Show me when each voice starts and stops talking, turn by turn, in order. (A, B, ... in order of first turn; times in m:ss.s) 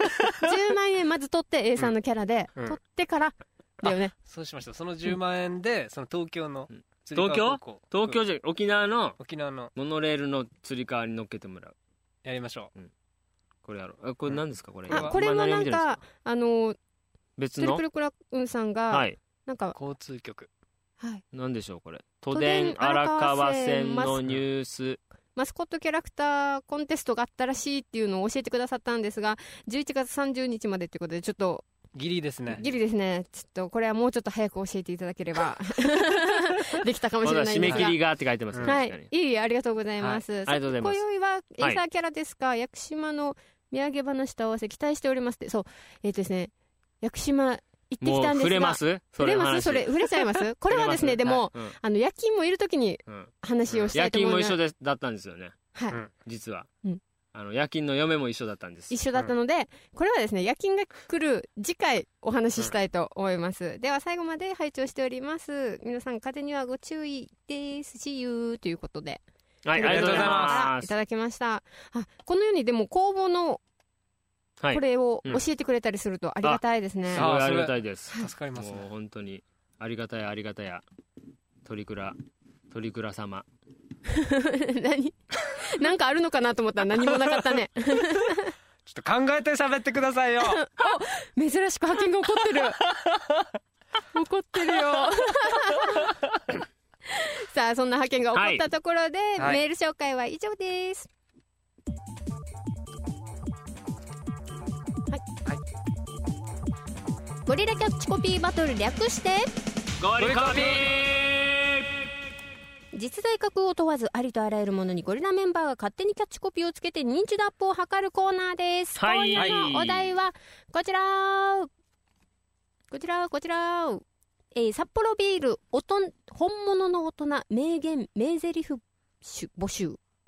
0:00.4-0:04.1 A
0:04.2-0:08.2 B
0:07.2-0:09.2 C
0:09.2-0:09.7 B
0:09.8-0:11.8 C
0:12.2-0:12.7 B
0:13.6-0:16.0 C
0:14.9-0:15.2 B
0:14.9-0:16.8 A
0:17.4-0:17.8 C
0:17.6-0:19.8 A
0:18.9-0:19.2 C
0:19.8-0:20.5 B
0:21.3-0:25.0 C
0:22.3-0:24.2 A
0:25.4-0:31.7 A
0:31.9-0:32.6 B
0:32.6-0:38.0 A
0:37.2-0:39.1 C
0:37.6-0:37.9 B
0:38.6-0:54.6 A
0:40.5-0:41.0 C
0:48.0-0:51.8 C
0:53.9-0:55.6 C
0:55.7-0:56.0 A
0:56.2-0:56.7 C
0:57.3-0:59.0 C
0:58.9-1:09.2 A
1:09.6-1:10.9 C
1:09.7-1:13.6 A
1:09.8-1:10.6 B
1:14.6-1:15.4 C
1:14.7-1:17.3 A
1:16.4-1:20.8 C
1:17.1-1:18.9 B
1:21.6-1:22.2 C
1:22.7-1:23.5 C
1:24.1-1:28.5 A
1:28.9-1:30.6 B
1:30.4-1:32.8 A
1:32.9-1:33.2 B
1:34.1-1:36.1 A
1:37.1-1:41.1 A
1:38.4-1:38.6 C
1:47.5-1:49.5 A
1:50.0-1:52.1 C
1:50.2-1:50.9 B
1:52.9-2:01.7 A
1:59.0-2:00.2 C
1:59.4-1:59.7 B
2:02.9-2:10.0 A